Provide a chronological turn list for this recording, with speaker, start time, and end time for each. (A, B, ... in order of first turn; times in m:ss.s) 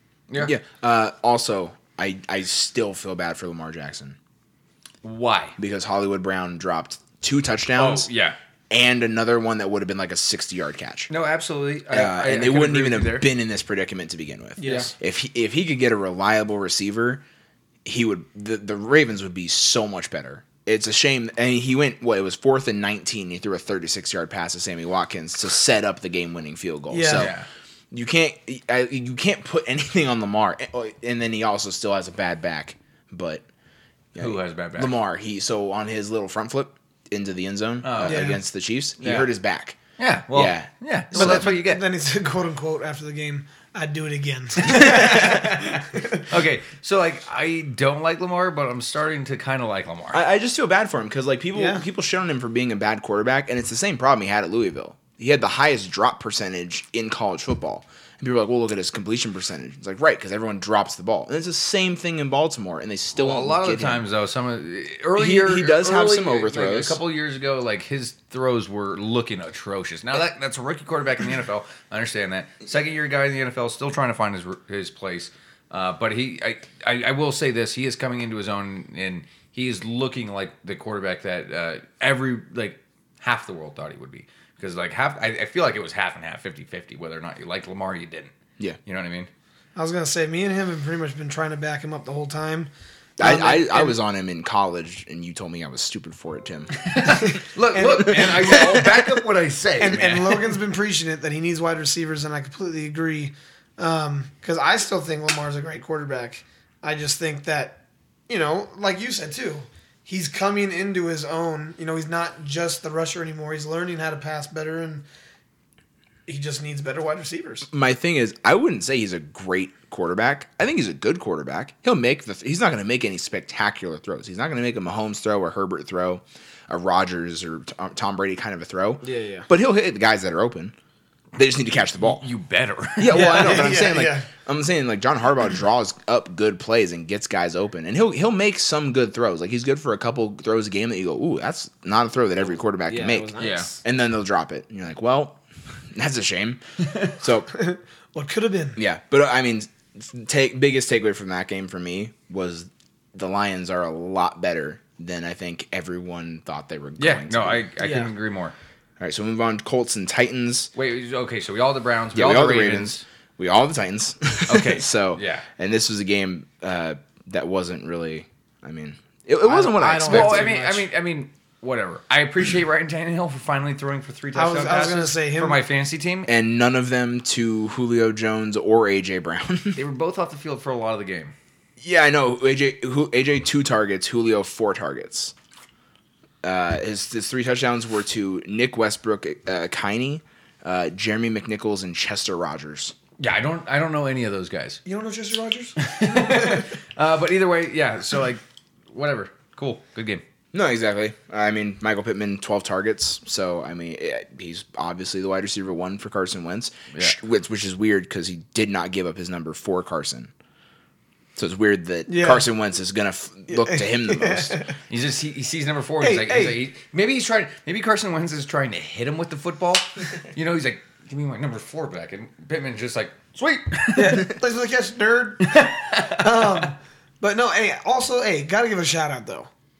0:00.3-0:00.5 A
0:00.4-0:04.2 B
0:05.0-0:05.5 A
0:05.6-0:08.1 B
0:07.8-0:08.4 A
0:08.7-0:11.1 B
0:11.1-0:13.3 A
0:11.9-0:17.2 B
0:14.6-0:14.9 C
0:14.6-0:14.9 A
0:17.8-0:27.3 B
0:26.9-0:27.3 C
0:27.1-0:27.5 A
0:27.9-0:33.4 B
0:34.1-0:39.8 B
0:34.2-0:34.9 A
0:37.8-0:38.3 A
0:38.0-0:38.4 C
0:39.0-0:39.3 A
0:40.0-0:41.8 A
0:40.3-0:41.5 B
0:41.1-0:46.2 C
0:44.6-0:50.2 A
0:50.1-1:04.0 B
0:51.5-0:51.8 C
1:03.1-1:28.3 A
1:05.2-1:07.0 B
1:28.8-1:29.3 A
1:29.8-1:34.0 C
1:33.2-1:36.8 B
1:36.8-1:40.6 A
1:37.0-1:39.0 C
1:38.1-1:38.8 B
1:39.8-1:55.0 C
1:56.3-1:57.7 C
1:57.7-2:10.7 B
2:09.0-2:09.5 C
2:11.3-2:12.2 B
2:12.0-2:13.6 A
2:13.0-2:25.4 B
2:13.1-2:14.3 C
2:22.8-2:23.8 C
2:23.4-2:23.7 A
2:25.9-2:26.6 B
2:27.2-2:27.5 B
2:27.5-2:28.8 C
2:28.8-2:37.7 B
2:37.0-2:38.5 A
2:37.8-2:38.1 C
2:39.0-2:40.7 B
2:40.7-2:43.0 A
2:42.1-2:50.5 B
2:44.5-2:45.5 A
2:49.4-2:50.8 C
2:50.0-2:56.3 A
2:54.3-2:55.6 C
2:56.2-2:59.8 B
2:59.7-3:01.3 A
3:01.8-3:05.3 B
3:06.4-3:12.9 B
3:13.2-3:14.8 A
3:14.8-3:16.6 C
3:15.8-3:20.2 A
3:20.5-3:30.3 B
3:31.4-3:34.6 B
3:32.1-3:32.5 C
3:33.5-3:34.7 C
3:34.9-3:44.3 A
3:36.0-3:36.6 C
3:43.9-3:49.5 C
3:45.4-3:46.6 A